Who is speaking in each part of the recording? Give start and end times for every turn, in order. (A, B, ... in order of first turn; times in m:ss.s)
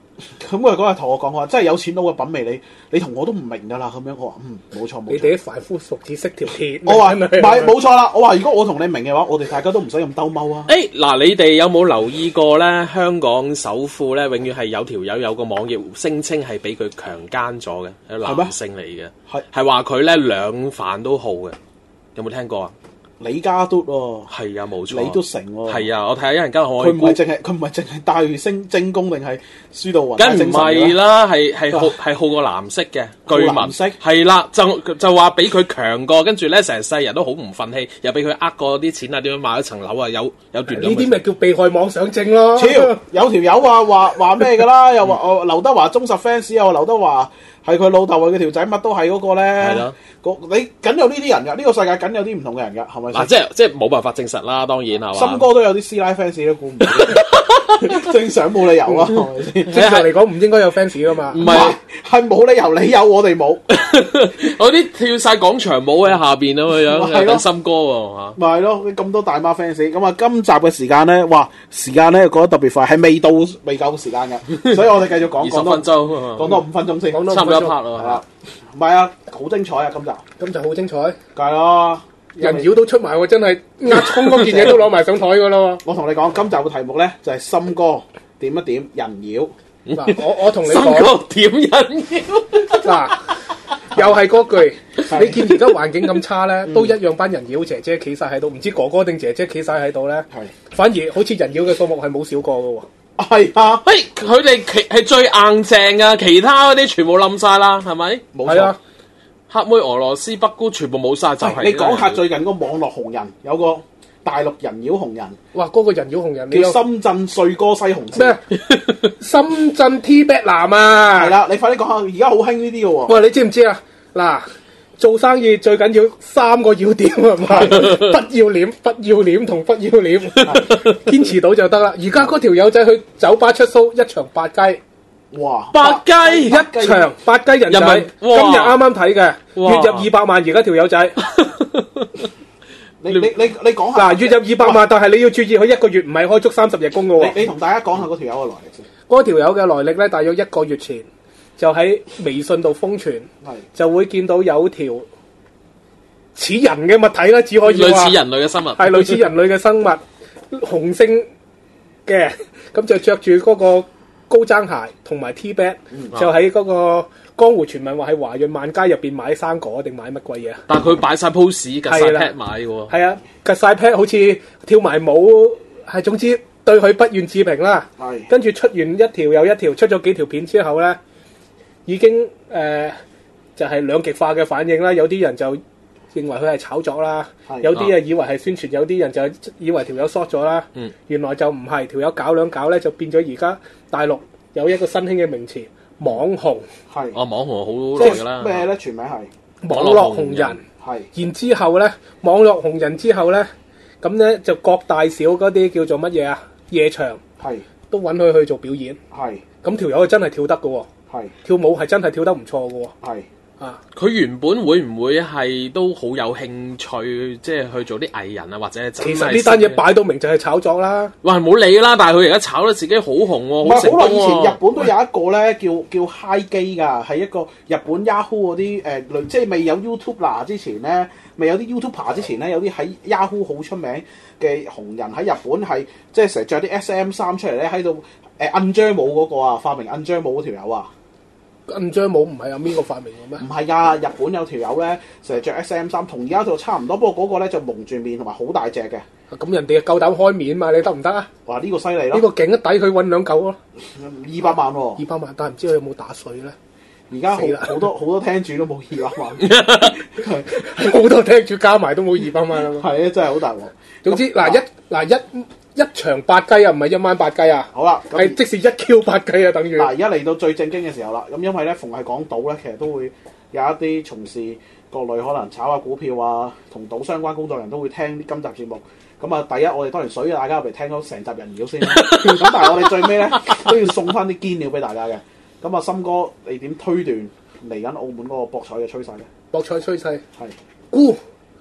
0:00.4-0:05.3 A
0:05.1-0:07.8 B
0:06.8-0:10.7 A
0:10.7-0:21.6 C
0:18.2-0:18.5 A
0:22.2-0:22.7 C
0:23.2-0:24.3 A
0:24.3-0:27.2 C
0:24.9-0:25.9 A
0:26.8-0:31.0 A
0:30.2-0:41.2 C
0:33.3-0:34.0 A
0:40.7-0:43.0 B
0:42.5-0:53.3 A
0:49.6-0:49.9 C
0:53.1-0:55.5 C
0:55.1-0:59.8 A
0:56.8-0:58.0 C
0:59.7-1:01.4 B
0:59.7-1:00.1 C
1:01.3-1:01.8 C
1:01.4-1:03.6 A
1:03.7-1:08.4 C
1:06.9-1:07.4 A
1:08.4-1:17.4 A
1:15.4-1:16.6 C
1:17.1-1:17.8 B
1:17.3-1:18.2 C
1:18.0-1:20.2 A
1:20.4-1:21.2 B
1:21.4-1:22.7 A
1:22.4-1:25.8 B
1:24.4-1:24.8 A
1:25.8-1:29.5 A
1:29.9-1:33.1 C
1:29.9-1:31.1 B
1:32.8-1:33.3 B
1:33.9-1:42.9 B
1:35.1-1:35.4 A
1:35.2-1:35.6 C
1:36.6-1:37.0 A
1:43.2-1:43.8 A
1:43.8-1:48.2 C
1:48.3-1:48.8 A
1:48.4-1:48.8 B
1:49.5-1:52.2 C
1:51.4-1:55.4 A
1:55.5-1:56.8 B
1:56.5-1:58.4 A
1:58.1-1:58.4 B
1:59.0-2:01.3 B
2:01.1-2:03.1 A
2:03.1-2:14.8 B
2:07.7-2:08.1 C
2:10.4-2:10.7 C
2:15.3-2:17.1 A
2:15.7-2:16.6 C
2:16.4-2:21.2 B
2:17.7-2:18.8 C
2:19.6-2:20.1 C
2:21.2-2:22.3 C
2:23.0-2:24.8 A
2:23.9-2:27.3 B
2:27.2-2:28.8 A
2:29.1-2:31.0 B
2:31.6-2:35.1 B
2:36.4-2:38.2 B
2:37.6-2:39.3 C
2:38.8-2:41.3 B
2:42.0-2:50.6 B
2:50.7-2:52.9 C
2:51.9-2:52.3 B
2:52.9-3:01.0 B
2:58.0-2:58.3 A
3:01.8-3:03.0 B
3:03.6-3:05.6 B
3:06.1-3:16.6 B
3:07.5-3:07.8 A
3:16.9-3:17.2 A
3:17.1-3:18.6 C
3:17.9-3:19.3 A
3:19.6-3:20.6 B
3:19.7-3:20.6 C
3:20.8-3:21.1 A
3:21.1-3:23.5 B
3:24.0-3:27.2 B
3:27.4-3:27.6 A
3:27.9-3:29.0 B
3:29.1-3:29.4 A
3:29.6-3:30.9 B
3:31.4-3:32.9 B
3:33.9-3:39.8 C
3:39.0-3:41.1 B
3:41.2-3:44.6 C
3:43.6-4:00.9 A
4:01.7-4:03.4 B
4:03.4-4:09.0 A
4:09.3-4:11.3 B
4:11.4-4:12.3 A
4:12.1-4:13.6 B
4:13.8-4:15.0 A
4:15.0-4:16.6 B
4:17.1-4:20.5 A
4:17.3-4:17.8 B
4:19.4-4:20.0 C
4:20.5-4:22.9 B
4:22.7-4:24.6 A
4:24.0-4:29.9 B
4:27.7-4:28.4 A
4:29.8-4:49.3 A
4:41.9-4:43.6 C
4:49.5-4:50.2 B
4:50.9-4:51.2 B